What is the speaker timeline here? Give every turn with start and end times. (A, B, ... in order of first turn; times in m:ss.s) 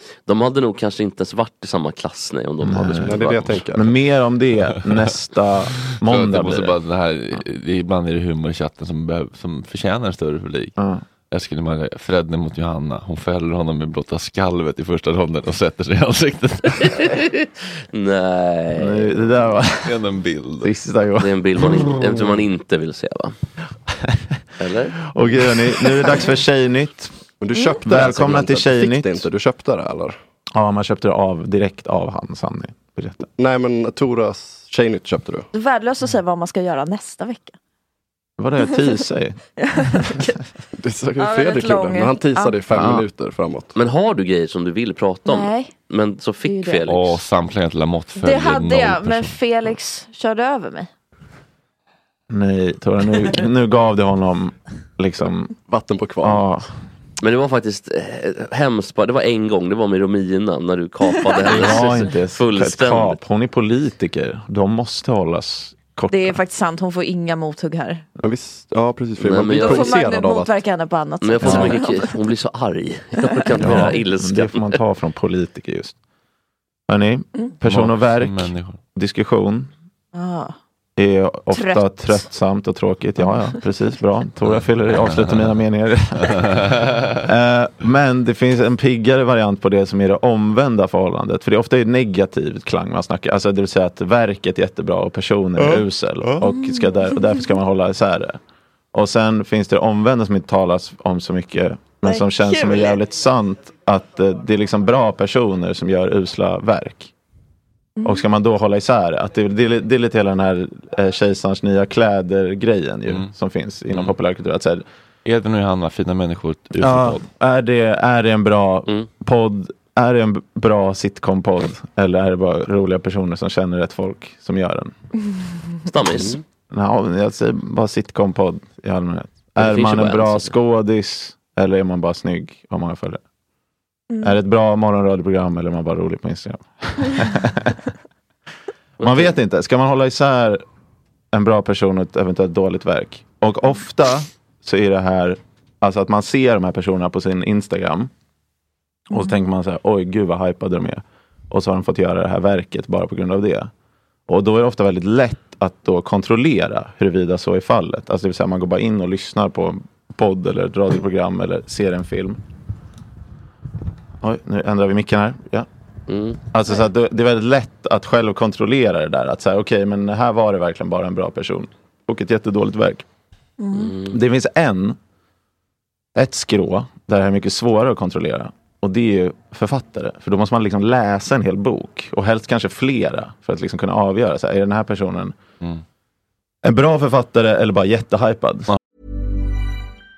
0:00.2-0:03.6 A
0:02.6-0:06.7 B
0:03.0-0:03.9 C
0:05.8-0:10.8 D
0:10.8-0:11.0 B
0:11.3-0:17.1 D
0:16.9-0:19.2 A
0:18.7-0:20.0 B
0:19.8-0:20.7 D
0:20.6-0:22.1 B
0:21.2-0:23.3 A
0:24.0-0:24.4 B
0:24.6-0:25.0 A
0:25.1-0:27.1 B
0:27.4-0:30.2 C
0:27.5-0:27.8 E
0:27.8-0:29.2 B
0:30.5-0:33.3 B
0:33.4-0:35.5 C
0:35.5-0:37.6 E
0:38.4-0:39.4 B
0:39.6-0:40.4 E
0:40.8-0:43.7 C
0:41.2-0:42.6 E
0:42.7-0:43.0 B
0:43.7-0:47.2 A
0:45.2-0:45.7 E
0:46.4-0:46.8 E
0:46.8-0:49.4 D
0:48.2-0:50.9 E
0:52.3-0:55.5 B
0:55.7-0:56.4 C
0:56.2-0:56.7 B
0:57.2-1:03.2 A
1:01.3-1:01.8 E
1:01.4-1:06.4 B
1:06.1-1:08.0 E
1:08.2-1:10.5 C
1:09.2-1:10.0 A
1:09.6-1:12.2 E
1:11.2-1:14.8 A
1:11.4-1:11.7 B
1:13.2-1:13.9 E
1:13.6-1:15.9 B
1:16.9-1:19.7 B
1:17.6-1:18.8 D
1:20.1-1:20.5 E
1:21.0-1:38.4 B
1:21.5-1:22.2 E
1:25.0-1:25.3 D
1:26.3-1:27.2 D
1:36.4-1:37.4 E
1:38.9-1:47.1 B
1:42.0-1:43.0 E
1:48.0-1:48.3 E
1:48.0-1:54.8 B
1:55.2-1:57.2 D
1:56.8-2:04.9 B
2:05.9-2:06.4 A
2:06.7-2:13.2 B
2:09.6-2:10.5 A
2:14.1-2:14.4 E
2:14.2-2:17.8 B
2:19.0-2:19.3 A
2:19.0-2:20.6 B
2:21.3-2:28.1 B
2:29.1-2:33.7 B
2:34.3-2:42.4 B
2:44.2-2:45.7 B
2:46.1-2:46.4 A
2:46.5-2:53.0 B
2:53.6-2:54.0 E
2:53.7-2:54.1 A
2:54.0-2:55.0 B
2:56.1-3:05.4 B
3:06.6-3:08.7 B